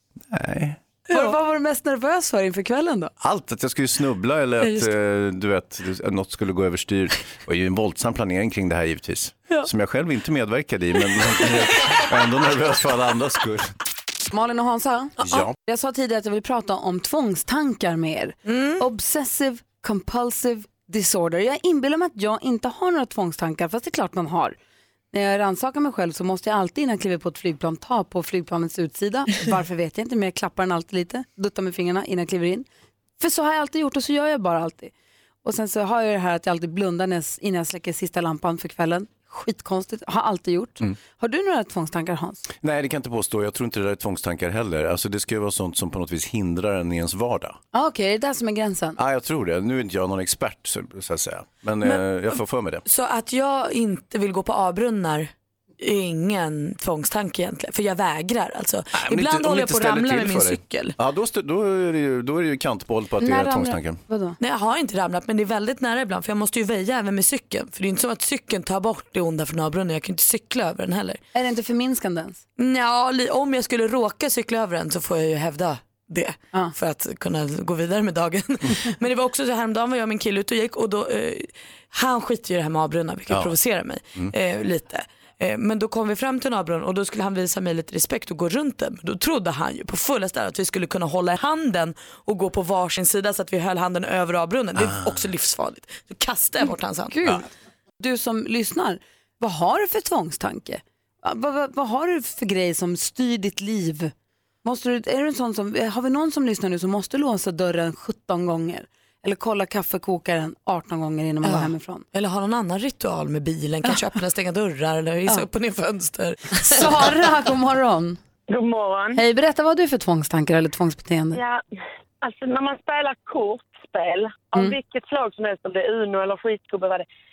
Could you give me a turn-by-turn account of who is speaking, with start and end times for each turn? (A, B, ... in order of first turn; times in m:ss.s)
0:00.3-0:00.8 A
0:01.1-0:03.1 B
0:03.2-0:13.7 A
0:14.3-0:24.6 B
0:15.2-0:15.5 A
0:18.5-0:18.8 C
0:25.1-0:32.6 B
0:33.2-0:34.9 B
0:35.4-0:42.4 B
0:42.6-0:47.6 A
0:47.7-0:49.0 B
0:49.0-0:52.8 A
0:52.8-1:00.9 C
0:58.9-1:04.0 A
1:03.2-1:04.4 B
1:04.4-1:11.2 C
1:11.3-1:12.4 B
1:12.6-1:37.3 C
1:23.3-1:23.6 A
1:34.8-1:35.2 A
1:37.1-1:37.4 B
1:38.0-1:44.1 B
1:44.6-1:52.0 B
1:51.4-1:56.9 C
1:56.6-1:58.2 B
1:58.5-1:59.2 D
1:59.1-2:01.4 B
2:01.3-2:01.6 D
2:02.2-2:07.0 D